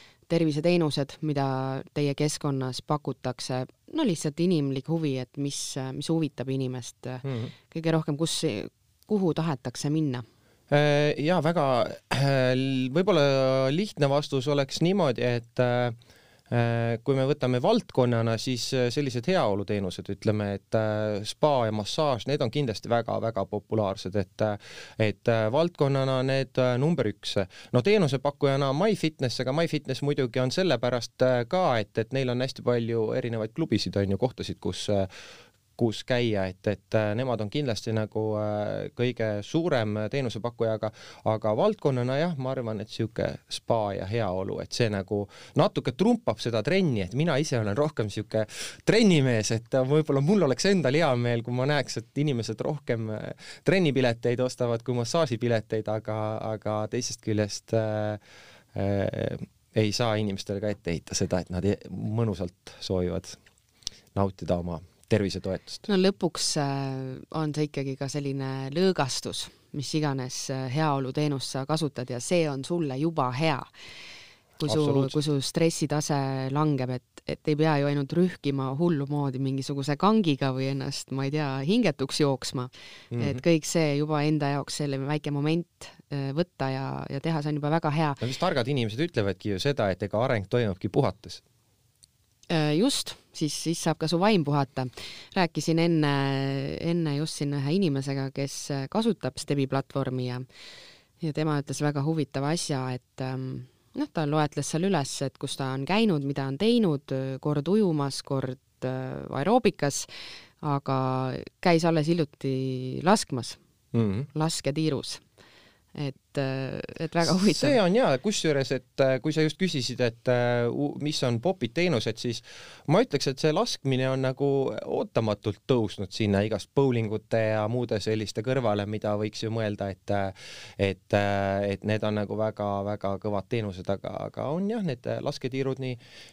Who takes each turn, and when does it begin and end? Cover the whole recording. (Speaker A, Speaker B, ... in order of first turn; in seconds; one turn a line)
Speaker A: 0.3-10.2
Speaker B: 7.2-7.5
Speaker B: 10.7-16.0
Speaker B: 16.5-35.1
Speaker B: 35.8-58.2
Speaker B: 58.7-63.4
Speaker B: 64.2-65.8
Speaker A: 65.9-73.7
Speaker A: 74.6-88.2
Speaker B: 74.6-75.2
Speaker B: 83.1-83.4
Speaker B: 88.2-91.4
Speaker A: 92.5-100.5
Speaker A: 101.2-110.1
Speaker A: 110.6-113.6
Speaker B: 113.9-114.3
Speaker A: 114.3-115.2
Speaker A: 116.0-117.8
Speaker B: 117.2-136.0